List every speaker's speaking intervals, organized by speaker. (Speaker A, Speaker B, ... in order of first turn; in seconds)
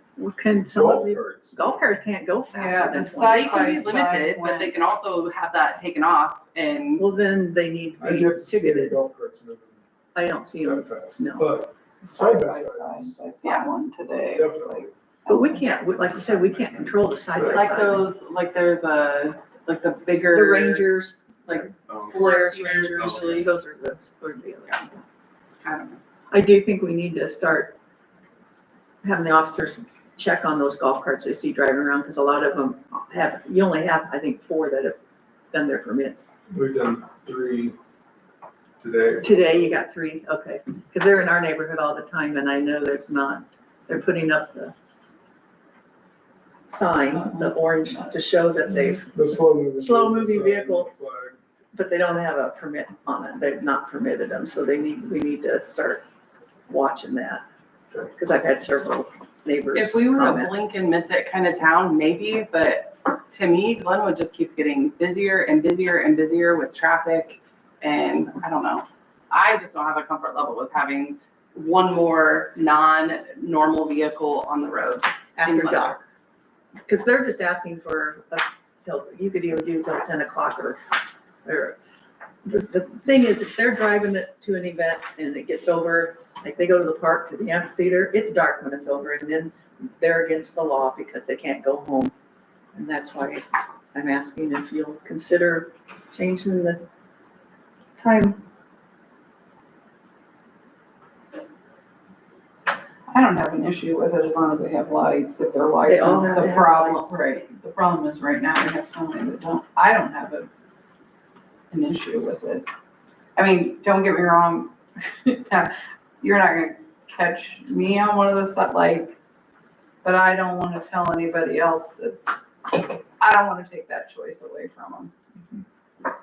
Speaker A: 0.2-3.8, 7.0-9.0, 10.2-11.5, 15.3-18.1, 20.3-25.0, 26.3-27.8, 29.0-35.0, 35.5-36.4, 39.2-44.7, 46.7-50.9, 51.7-56.0, 56.7-57.4, 58.1-60.5, 75.4-76.0, 76.8-80.8, 81.5-81.8, 82.4-92.1, 92.7-96.8, 98.0-98.4, 105.8-107.2
Speaker B: 0.7-1.8, 8.0-9.8, 10.6-13.2, 14.3-14.9, 36.5-37.8, 38.8-39.7, 49.1-51.4
Speaker C: 2.5-4.7, 12.0-16.7, 103.1-110.5, 111.7-112.7, 113.4-119.2, 120.0-125.1
Speaker D: 3.1-7.1, 13.4-13.7, 17.4-20.9, 21.5-23.5, 25.6-26.0, 59.7-76.0